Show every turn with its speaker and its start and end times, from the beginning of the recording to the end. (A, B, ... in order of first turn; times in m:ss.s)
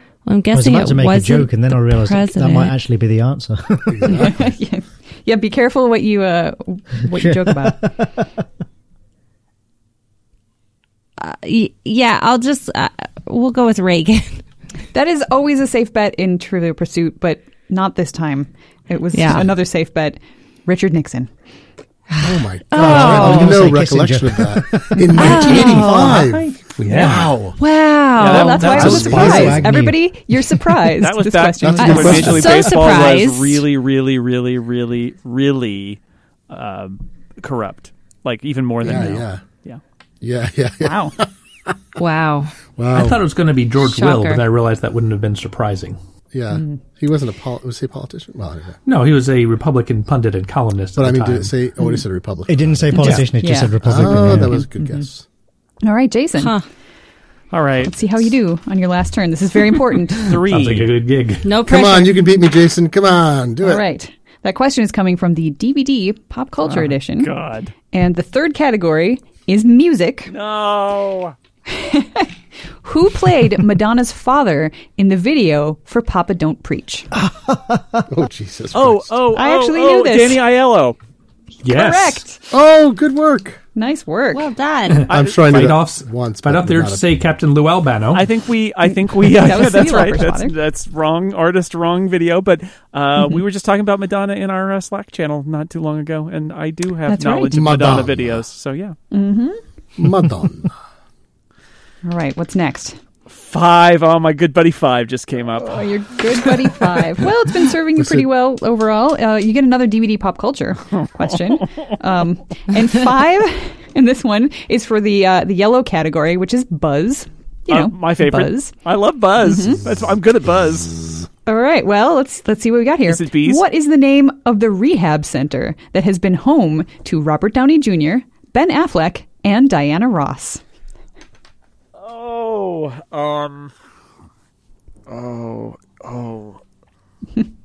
0:00.2-0:02.8 A
0:00.5-0:04.3 B
0:03.9-0:04.5 C
0:04.1-0:08.1 D
0:07.1-0:08.2 B
0:11.2-0:14.4 A
0:14.9-0:21.3 D
0:19.1-0:19.5 A
0:22.2-0:27.6 C
0:22.2-0:23.8 A
0:22.7-0:25.2 B
0:25.1-0:26.2 A
0:25.8-0:27.4 E
0:27.6-0:29.0 A
0:28.2-0:29.0 F
0:28.2-0:32.6 D
0:28.5-0:29.7 E
0:28.6-0:29.6 C
0:29.1-0:30.6 B
0:31.0-0:36.0 F
0:31.6-0:32.8 C
0:31.8-0:33.6 A
0:36.5-0:39.8 F
0:38.8-0:39.4 C
0:40.2-0:41.7 C
0:40.8-0:41.2 D
0:42.0-0:42.5 A
0:42.8-0:43.3 C
0:42.9-0:46.0 E
0:43.8-0:44.4 A
0:46.3-0:48.8 C
0:48.8-0:51.5 E
0:51.0-0:53.3 C
0:52.5-0:54.6 B
0:53.0-0:53.2 E
0:53.1-0:53.8 D
0:53.8-0:55.2 C
0:55.8-0:56.5 D
0:56.4-0:56.6 A
0:57.5-0:57.9 F
0:57.9-1:00.4 D
1:00.2-1:00.9 F
1:00.4-1:01.5 E
1:01.4-1:02.2 A
1:01.6-1:03.8 C
1:03.6-1:07.3 D
1:07.2-1:07.7 F
1:07.9-1:10.3 D
1:10.3-1:11.3 F
1:11.7-1:12.3 D
1:12.8-1:17.1 D
1:17.2-1:18.0 B
1:18.1-1:19.2 C
1:18.7-1:21.0 F
1:19.3-1:20.4 D
1:21.6-1:22.2 E
1:21.7-1:22.4 D
1:22.5-1:23.6 C
1:23.7-1:24.5 D
1:24.3-1:25.1 A
1:25.0-1:28.3 E
1:25.1-1:25.3 F
1:25.1-1:27.1 C
1:28.1-1:39.0 F
1:29.2-1:30.5 D
1:37.1-1:37.5 D
1:37.5-1:38.4 C
1:39.1-1:39.6 D
1:40.0-1:40.7 C
1:42.0-1:43.0 D
1:43.3-1:45.8 F
1:45.6-1:58.7 D
1:48.0-1:48.2 C
1:57.7-2:01.3 F
1:59.4-1:59.8 D
2:01.4-2:10.6 D
2:03.1-2:03.6 F
2:12.0-2:13.7 F
2:15.1-2:16.6 F